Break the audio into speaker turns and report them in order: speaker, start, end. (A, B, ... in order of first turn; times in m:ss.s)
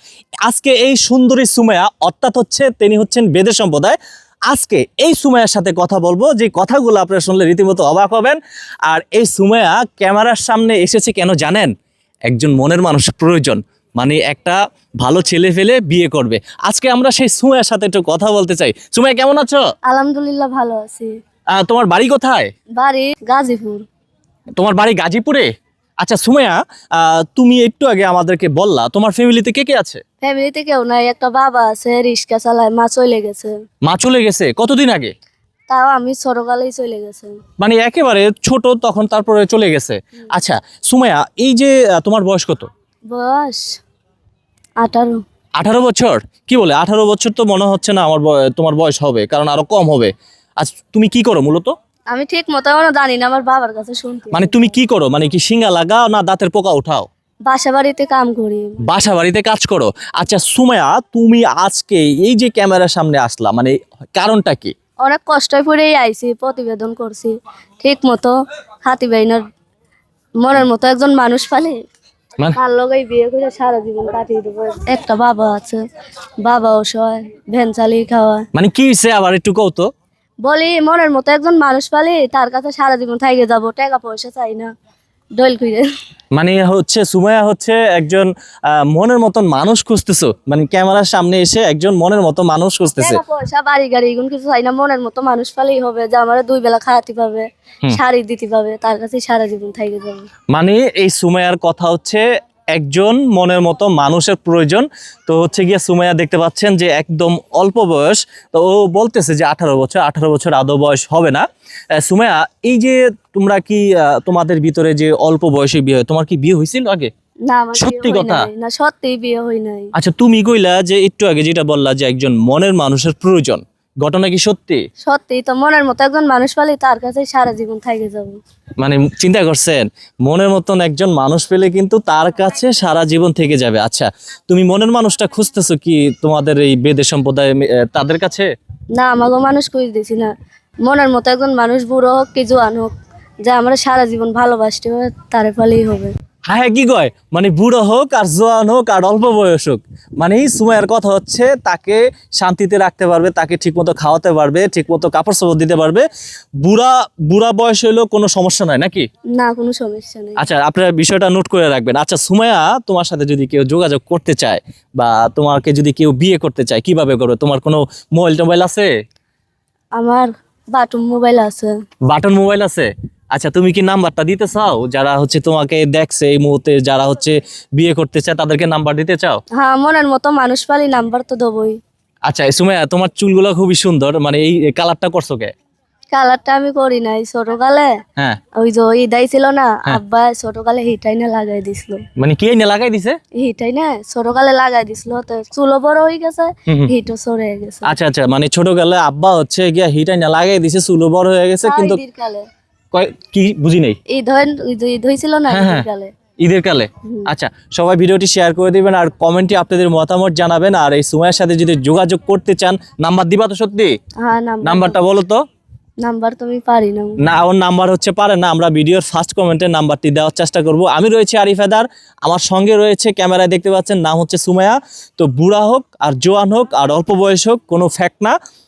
0:00.4-0:04.0 A
0:04.5-0:11.7 A
0:12.3-0:19.6 A
0:19.8-0:21.1 B
0:21.5-0:22.5 A
0:22.8-0:23.8 B
0:24.6-0:25.5 A
0:26.0-0:30.0 A
0:30.2-0:33.5 B
0:33.8-0:35.1 A
0:35.7-0:37.3 B
0:37.6-0:42.7 A
0:43.1-0:43.8 B
0:44.8-0:45.2 B
0:45.6-0:51.7 A
0:52.1-0:54.7 B
0:54.3-0:57.1 A
0:57.4-0:58.8 B
0:58.8-1:04.7 A
1:05.0-1:09.4 B
1:10.4-1:11.8 B
1:12.6-1:15.8 B
1:16.4-1:18.4 B
1:18.5-1:19.9 A
1:20.4-1:24.7 B
1:25.4-1:25.8 B
1:26.3-1:33.2 A
1:33.0-1:40.3 B
1:40.5-1:42.2 A
1:42.7-1:51.4 A
1:52.0-1:57.1 A
1:57.5-1:59.9 B
1:57.8-1:58.5 A
1:59.9-2:04.8 A
2:05.0-2:08.4 B
2:08.8-2:18.5 A
2:18.9-2:20.3 B
2:20.8-2:26.1 B
2:26.5-2:36.0 A
2:36.6-2:39.0 A
2:39.3-2:40.4 B
2:40.4-2:48.9 A
2:50.0-2:51.7 B
2:52.1-2:59.4 A
2:59.5-3:01.8 B
3:02.2-3:05.5 A
3:06.1-3:07.9 B
3:08.6-3:12.0 B
3:12.2-3:13.2 A
3:13.4-3:17.9 B
3:17.8-3:22.0 A
3:21.6-3:22.4 B
3:22.9-3:24.0 A
3:24.1-3:26.1 B
3:25.5-3:25.9 A
3:26.4-3:33.9 A
3:34.2-3:35.0 B
3:34.6-3:35.4 A
3:36.0-3:37.2 B
3:37.2-3:48.4 A